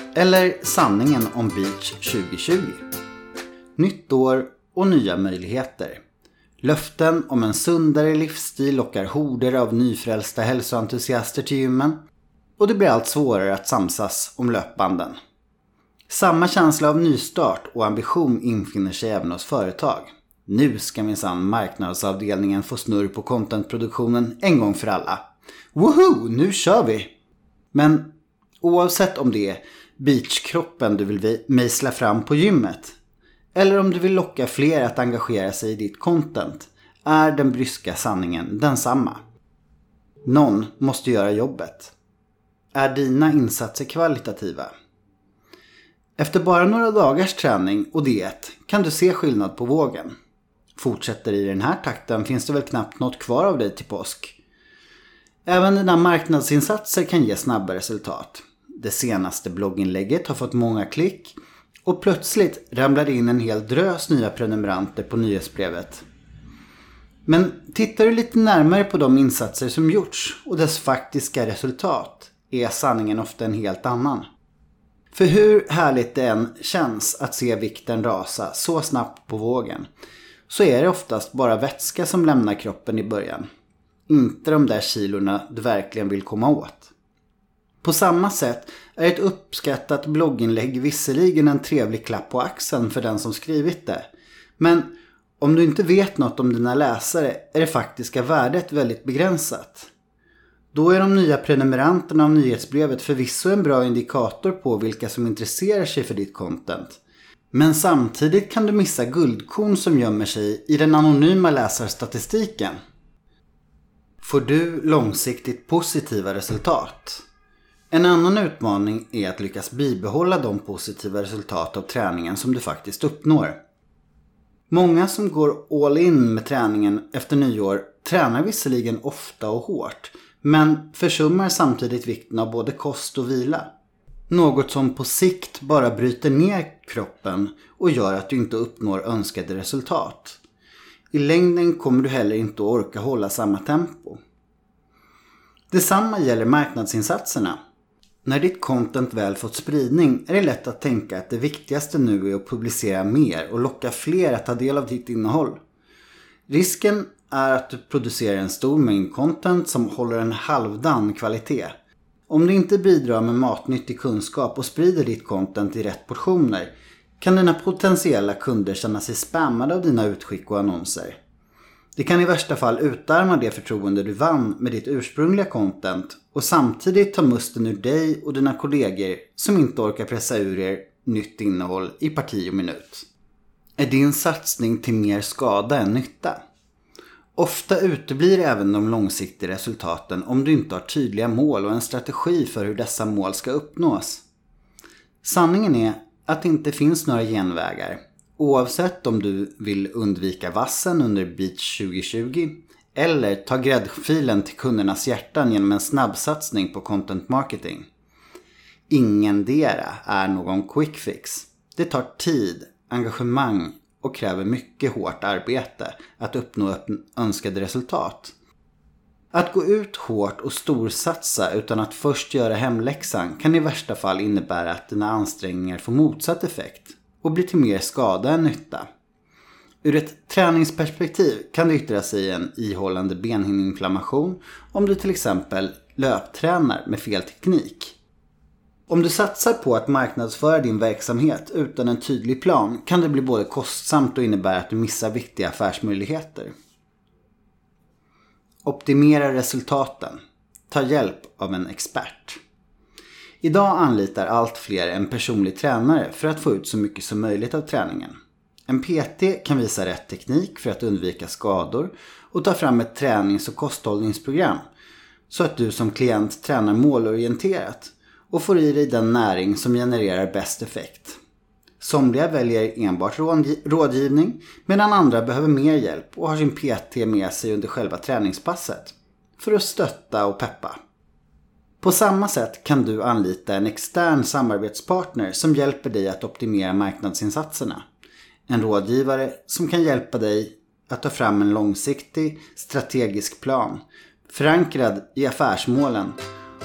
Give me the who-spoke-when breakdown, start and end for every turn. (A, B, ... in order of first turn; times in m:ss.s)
0:00.2-0:02.8 A
0:03.8-0:06.0 A
0:06.6-0:12.0 A
0:12.6-0:15.2 A
0:16.1-0:25.2 A
0:25.7-0:27.1 A
0:27.7-0:33.0 A
0:33.6-0:39.2 A
0:40.2-0:41.9 A
0:42.7-0:44.7 A
0:46.2-0:50.1 A
0:50.8-0:54.4 A
0:55.5-1:06.0 A
1:07.3-1:14.2 A
1:15.1-1:19.9 A
1:20.5-1:23.5 A
1:24.1-1:26.9 A
1:27.8-1:34.0 A
1:34.6-1:39.9 A
1:40.7-1:47.0 A
1:47.5-1:52.8 A
1:54.2-1:57.2 A
1:57.9-2:03.6 A
2:04.7-2:13.7 A
2:14.3-2:20.4 A
2:21.1-2:24.2 A
2:25.7-2:27.6 A
2:28.2-2:35.6 A
2:36.5-2:41.7 A
2:42.3-2:51.2 A
2:52.0-3:03.1 A
3:03.8-3:06.4 A
3:07.4-3:14.2 A
3:15.2-3:27.9 A
3:28.9-3:38.4 A
3:39.3-3:48.8 A
3:49.8-3:58.0 A
3:58.9-4:06.5 A
4:08.6-4:12.4 A
4:13.4-4:18.2 A
4:18.7-4:24.6 A
4:25.3-4:31.2 A
4:31.8-4:40.8 A
4:41.8-4:47.8 A
4:48.5-4:56.2 A